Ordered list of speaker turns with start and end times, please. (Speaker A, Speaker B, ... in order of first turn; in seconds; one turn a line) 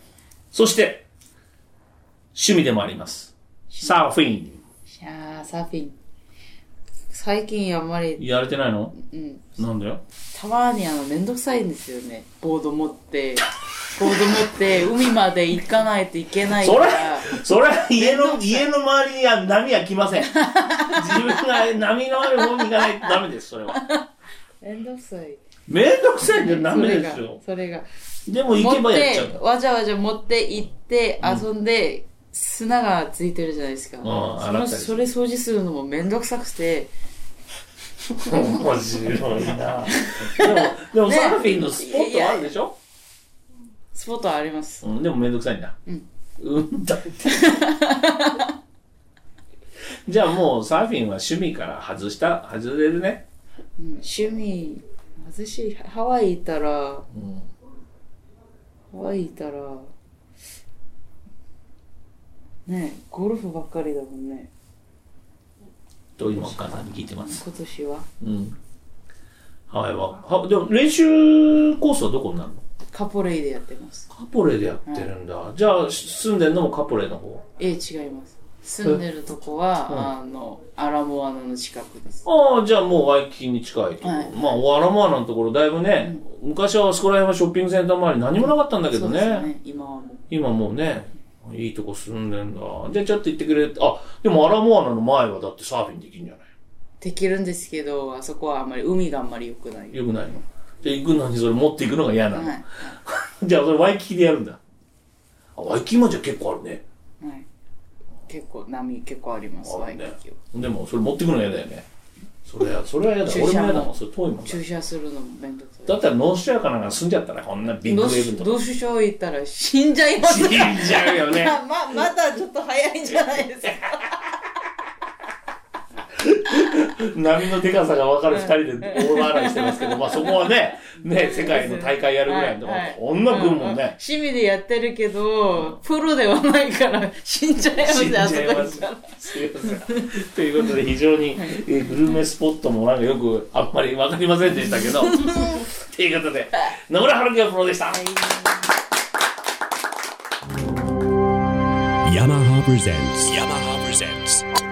Speaker A: 0.5-1.1
Speaker A: 2.3-4.6
Speaker B: 3.7-4.2
Speaker B: 4.8-6.0
Speaker B: 7.1-8.3
Speaker A: 8.2-9.0
Speaker B: 8.9-9.6
Speaker A: 9.6-10.0
Speaker B: 10.2-17.4
Speaker A: 16.5-23.9
Speaker B: 18.0-18.7
Speaker B: 20.2-21.6
Speaker B: 22.4-23.1
Speaker B: 23.7-24.0
Speaker B: 24.6-25.4
Speaker A: 25.7-27.4
Speaker B: 26.2-27.9
Speaker A: 28.3-29.4
Speaker B: 28.5-36.9
Speaker A: 34.0-35.0
Speaker A: 38.1-42.8
Speaker B: 39.9-42.5
Speaker B: 43.9-44.9
Speaker A: 44.8-45.8
Speaker A: 46.4-47.7
Speaker B: 47.3-48.5
Speaker A: 50.1-53.2
Speaker B: 53.8-57.1
Speaker A: 57.1-57.5
Speaker B: 58.9-59.9
Speaker B: 62.7-64.5
Speaker A: 66.2-67.4
Speaker B: 67.2-68.1
Speaker A: 68.2-68.6
Speaker A: 69.7-72.6
Speaker B: 72.9-74.1
Speaker A: 74.1-77.4
Speaker B: 77.6-82.3
Speaker A: 82.2-89.5
Speaker B: 84.0-84.5
Speaker B: 88.4-90.2
Speaker A: 90.3-96.5
Speaker B: 97.0-100.4
Speaker A: 99.9-104.6
Speaker B: 102.3-103.0
Speaker A: 105.6-106.8
Speaker B: 107.2-107.5
Speaker B: 108.3-110.4
Speaker A: 109.6-111.9
Speaker A: 112.5-114.6
Speaker B: 113.2-116.0
Speaker A: 115.9-118.6
Speaker B: 117.8-124.3
Speaker A: 120.2-121.6
Speaker A: 126.2-134.0
Speaker B: 128.3-130.5
Speaker B: 131.0-139.9
Speaker A: 137.8-148.0
Speaker B: 141.4-142.2
Speaker B: 147.9-148.7
Speaker C: 152.1-154.5